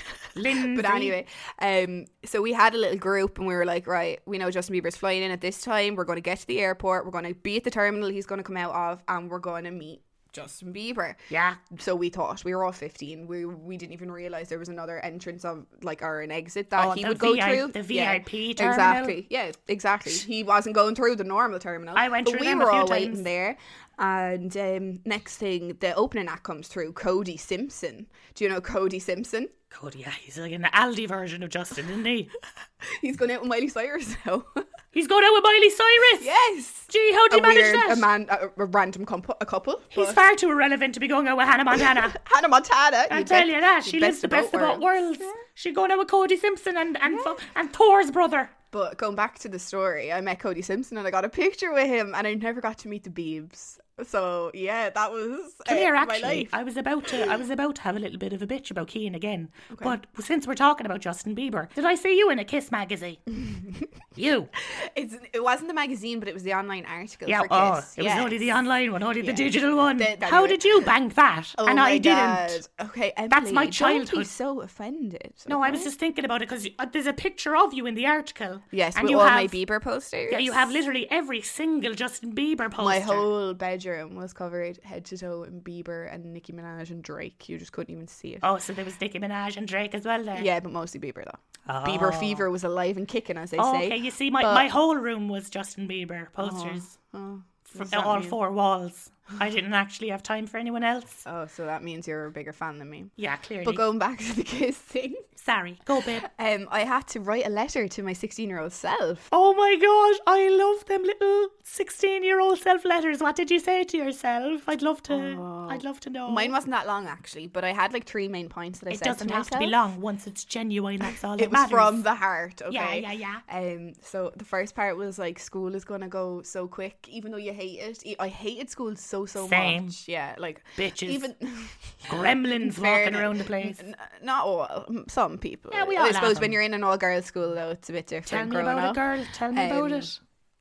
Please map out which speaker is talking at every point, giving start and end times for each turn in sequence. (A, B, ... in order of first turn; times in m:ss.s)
0:00.3-0:01.2 A
0:00.4-0:29.5 B
0:11.3-0:11.6 A
0:16.8-0:19.2 A
0:21.9-0:23.2 A
0:29.7-0:32.3 A
0:32.8-0:34.6 B
0:34.9-0:36.3 A
0:36.2-0:40.2 B
0:36.9-0:38.1 A
0:39.9-0:42.2 A
0:41.8-0:45.4 B
0:43.1-0:48.5 A
0:47.1-0:47.4 B
0:48.7-0:56.5 B
0:55.6-1:03.2 A
0:59.7-1:00.0 B
1:04.2-1:04.5 A
1:04.7-1:08.6 B
1:07.2-1:12.6 A
1:09.2-1:10.9 B
1:11.6-1:15.9 B
1:13.3-1:14.3 A
1:15.5-1:19.6 A
1:18.7-1:20.8 B
1:20.3-1:23.3 A
1:22.8-1:28.4 B
1:28.4-1:30.5 A
1:30.3-1:34.7 B
1:31.7-1:32.4 A
1:33.6-1:36.9 A
1:36.4-1:38.4 B
1:37.7-1:41.2 A
1:41.2-1:45.2 B
1:43.2-1:43.8 A
1:45.4-1:46.3 A
1:46.2-1:49.3 B
1:49.3-1:56.5 A
1:55.1-1:59.8 B
1:58.9-2:02.0 A
2:01.4-2:20.1 B
2:02.7-2:03.4 A
2:09.4-2:10.0 A
2:10.8-2:11.3 A
2:12.1-2:13.8 A
2:15.7-2:16.6 A
2:18.2-2:20.2 A